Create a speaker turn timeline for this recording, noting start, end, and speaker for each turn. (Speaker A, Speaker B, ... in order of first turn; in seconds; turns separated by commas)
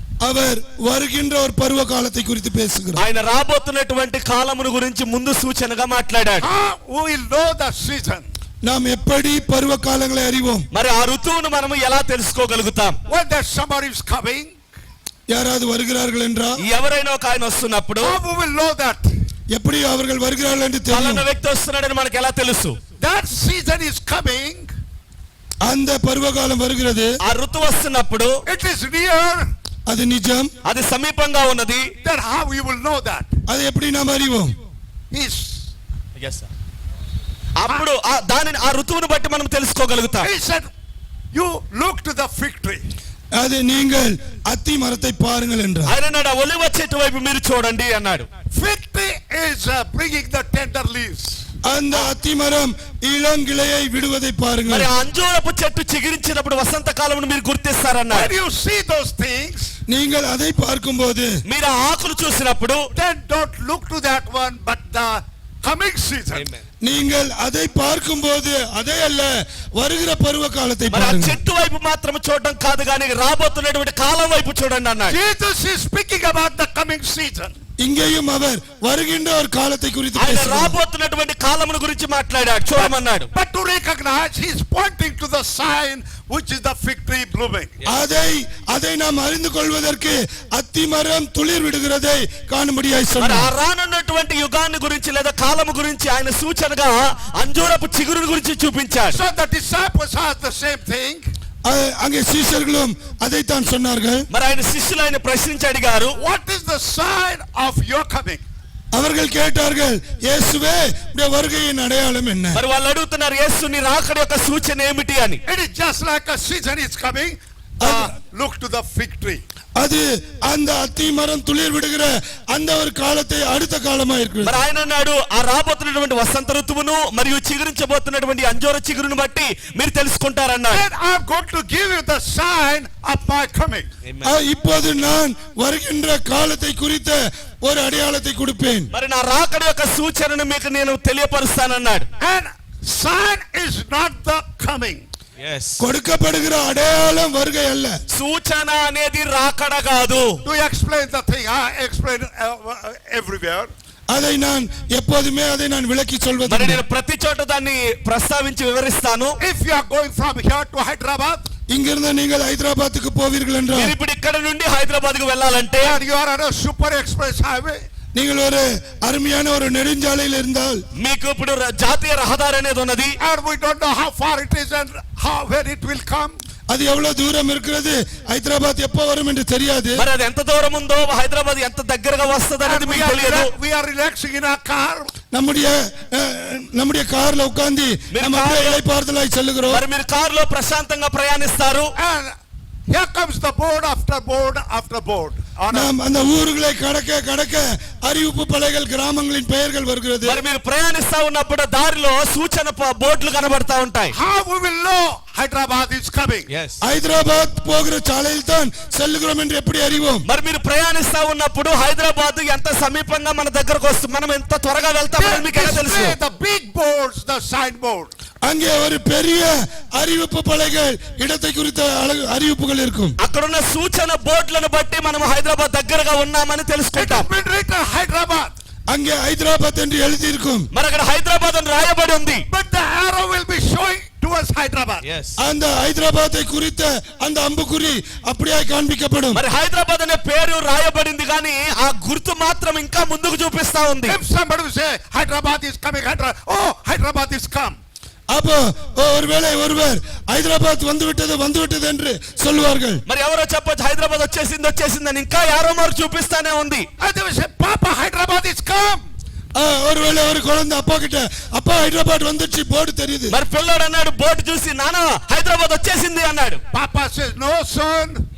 Speaker A: 0.2-3.0, Speaker B: 3.0-6.5, Speaker C: 6.4-8.3, Speaker A: 8.6-10.7, Speaker B: 10.7-13.0, Speaker C: 13.1-14.5, Speaker A: 15.3-16.6, Speaker B: 16.6-18.2, Speaker C: 18.0-19.1, Speaker A: 19.5-21.3, Speaker B: 20.9-22.8, Speaker C: 23.0-24.7, Speaker A: 25.6-27.2, Speaker B: 27.2-28.4, Speaker C: 28.4-29.5, Speaker A: 29.9-30.5, Speaker B: 30.6-31.9, Speaker C: 32.0-33.3, Speaker A: 33.5-34.5, Speaker C: 35.1-35.7, Speaker B: 36.2-36.5, Speaker B: 37.5-40.3, Speaker C: 40.2-40.7, Speaker C: 41.3-42.9, Speaker A: 43.4-46.0, Speaker B: 45.9-48.3, Speaker C: 48.5-51.4, Speaker A: 51.6-54.9, Speaker B: 54.7-58.3, Speaker C: 58.1-59.7, Speaker A: 59.9-61.4, Speaker B: 61.5-62.9, Speaker C: 62.9-66.5, Speaker B: 66.3-66.6, Speaker A: 66.8-71.4, Speaker B: 70.9-75.2, Speaker C: 75.1-77.5, Speaker A: 77.8-80.7, Speaker B: 80.2-83.3, Speaker C: 82.8-87.8, Speaker A: 87.9-93.5, Speaker B: 93.2-99.2, Speaker C: 99.1-101.2, Speaker A: 101.7-104.2, Speaker B: 104.3-106.2, Speaker C: 106.2-108.4, Speaker A: 108.9-112.6, Speaker B: 112.5-115.4, Speaker C: 115.5-119.4, Speaker A: 117.8-118.1, Speaker A: 119.8-124.6, Speaker B: 124.4-130.8, Speaker C: 130.7-133.9, Speaker B: 134.1-134.3, Speaker A: 134.2-138.9, Speaker B: 138.9-142.1, Speaker C: 142.2-145.1, Speaker B: 145.4-145.8, Speaker A: 145.8-148.0, Speaker B: 148.1-150.4, Speaker C: 150.4-153.7, Speaker A: 154.1-156.8, Speaker B: 156.5-159.4, Speaker C: 159.4-161.5, Speaker A: 161.7-163.9, Speaker B: 163.7-166.0, Speaker C: 165.8-167.8, Speaker A: 168.2-170.8, Speaker B: 170.9-173.2, Speaker C: 173.2-176.4, Speaker A: 176.7-180.1, Speaker B: 180.0-183.5, Speaker C: 182.7-185.1, Speaker A: 185.3-189.8, Speaker B: 188.1-188.8, Speaker B: 189.7-191.9, Speaker C: 192.0-192.4, Speaker C: 192.9-195.9, Speaker A: 195.7-200.4, Speaker B: 200.2-204.2, Speaker C: 204.1-206.5, Speaker B: 206.5-206.8, Speaker A: 206.8-210.2, Speaker B: 210.2-216.2, Speaker C: 215.2-218.1, Speaker A: 218.4-223.2, Speaker B: 223.2-227.3, Speaker C: 226.9-228.5, Speaker A: 228.9-230.7, Speaker B: 230.7-232.4, Speaker C: 232.5-235.1, Speaker B: 235.0-235.4, Speaker A: 235.4-239.4, Speaker B: 239.3-244.2, Speaker C: 244.1-247.8, Speaker A: 248.3-253.0, Speaker B: 253.1-256.9, Speaker C: 257.0-259.1, Speaker A: 259.6-263.4, Speaker B: 263.3-266.6, Speaker C: 266.7-268.2